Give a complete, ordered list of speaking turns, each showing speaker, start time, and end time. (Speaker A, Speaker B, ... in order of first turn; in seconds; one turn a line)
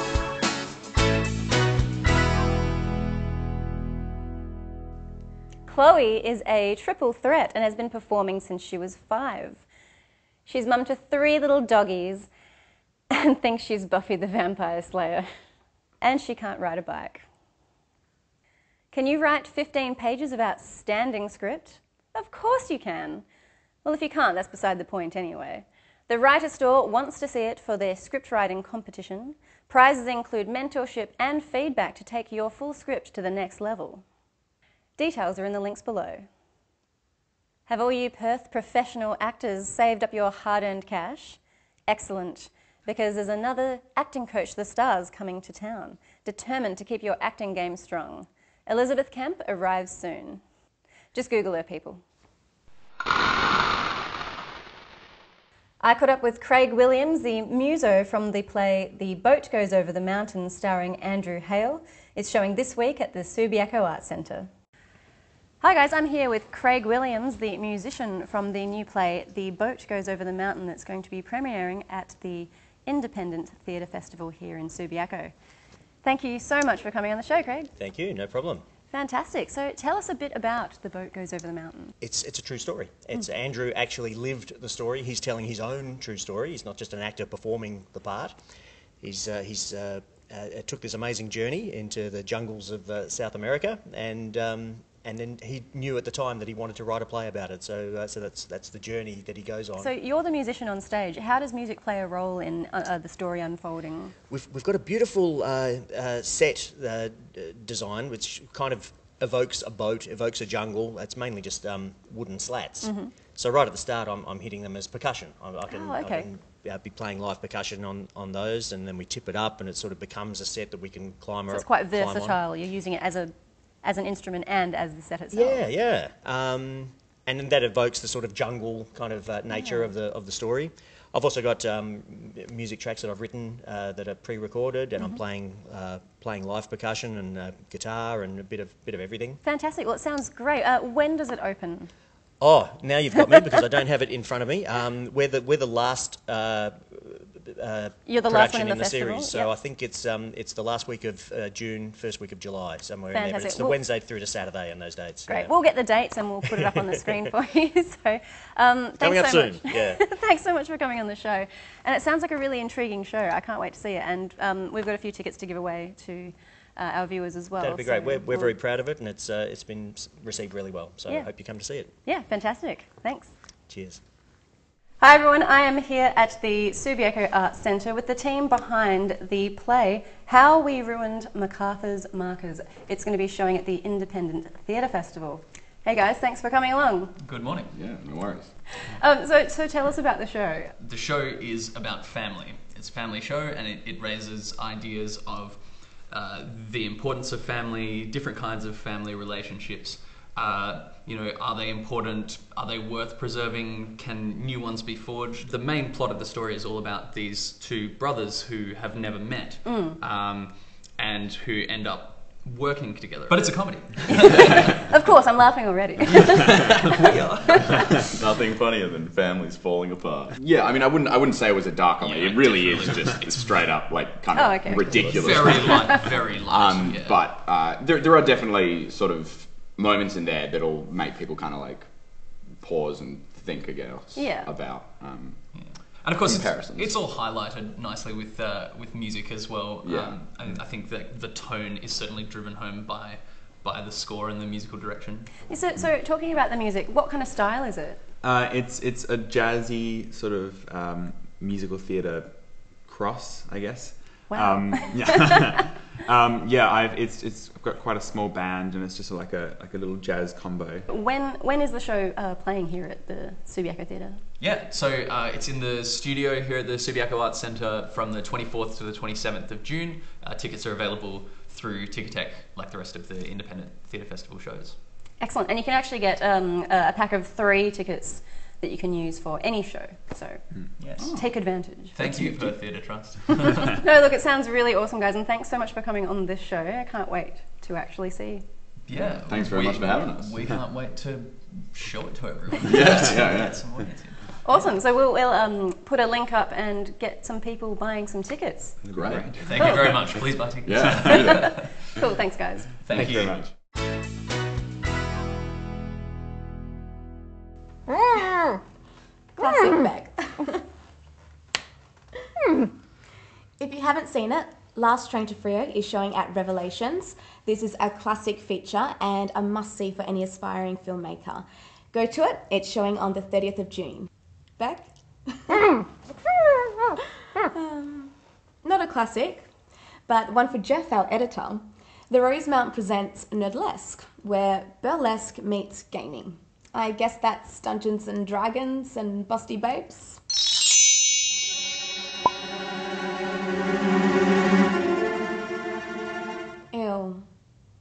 Speaker A: 5.7-9.6
Speaker A: 10.5-12.3
Speaker A: 13.1-15.3
Speaker A: 16.0-17.2
Speaker A: 18.9-23.2
Speaker A: 23.8-34.0
Speaker A: 35.0-36.3
Speaker A: 37.7-50.4
Speaker A: 51.1-52.0
Speaker A: 55.8-64.5
Speaker A: 65.6-75.3
Speaker A: 76.0-77.7
Speaker B: 77.8-78.6
Speaker A: 78.9-81.9
Speaker B: 82.0-88.4
Speaker B: 89.0-99.9
Speaker A: 99.8-104.1
Speaker B: 104.3-122.4
Speaker A: 112.8-113.1
Speaker A: 115.7-116.3
Speaker A: 121.5-125.6
Speaker B: 125.3-139.4
Speaker A: 129.5-129.9
Speaker A: 139.4-141.9
Speaker B: 142.4-155.5
Speaker A: 148.1-149.5
Speaker A: 153.1-153.8
Speaker A: 155.3-168.5
Speaker B: 156.8-157.2
Speaker B: 159.0-160.0
Speaker B: 167.6-171.9
Speaker A: 172.1-173.3
Speaker B: 173.7-174.0
Speaker A: 175.0-187.1
Speaker C: 187.2-187.7
Speaker D: 187.7-188.5
Speaker A: 188.9-190.7
Speaker C: 190.8-214.9
Speaker A: 209.7-210.0
Speaker A: 214.8-216.7
Speaker C: 216.4-218.0
Speaker D: 218.2-231.9
Speaker C: 222.0-223.6
Speaker A: 224.3-226.0
Speaker C: 224.8-227.2
Speaker D: 232.5-235.4
Speaker A: 234.1-234.5
Speaker C: 235.5-245.4
Speaker D: 236.2-237.0
Speaker D: 239.8-240.2
Speaker A: 245.5-248.0
Speaker E: 248.2-260.9
Speaker A: 254.3-255.3
Speaker A: 260.9-264.2
Speaker C: 264.4-274.8
Speaker A: 275.2-282.1
Speaker C: 280.8-281.2
Speaker D: 281.0-281.2
Speaker C: 281.9-283.8
Speaker A: 283.6-288.4
Speaker C: 288.9-294.7
Speaker D: 288.9-290.4
Speaker D: 292.6-293.6
Speaker A: 294.4-298.8
Speaker E: 298.8-299.9
Speaker D: 298.9-299.6
Speaker C: 299.0-301.7
Speaker D: 300.6-301.6
Speaker A: 301.9-302.8
Speaker C: 302.8-303.4
Speaker E: 302.9-303.4
Speaker D: 303.2-303.5
Speaker F: 309.4-310.6
Speaker F: 313.6-325.9
Speaker F: 327.4-329.5
Speaker F: 330.1-340.2
Speaker F: 346.7-347.2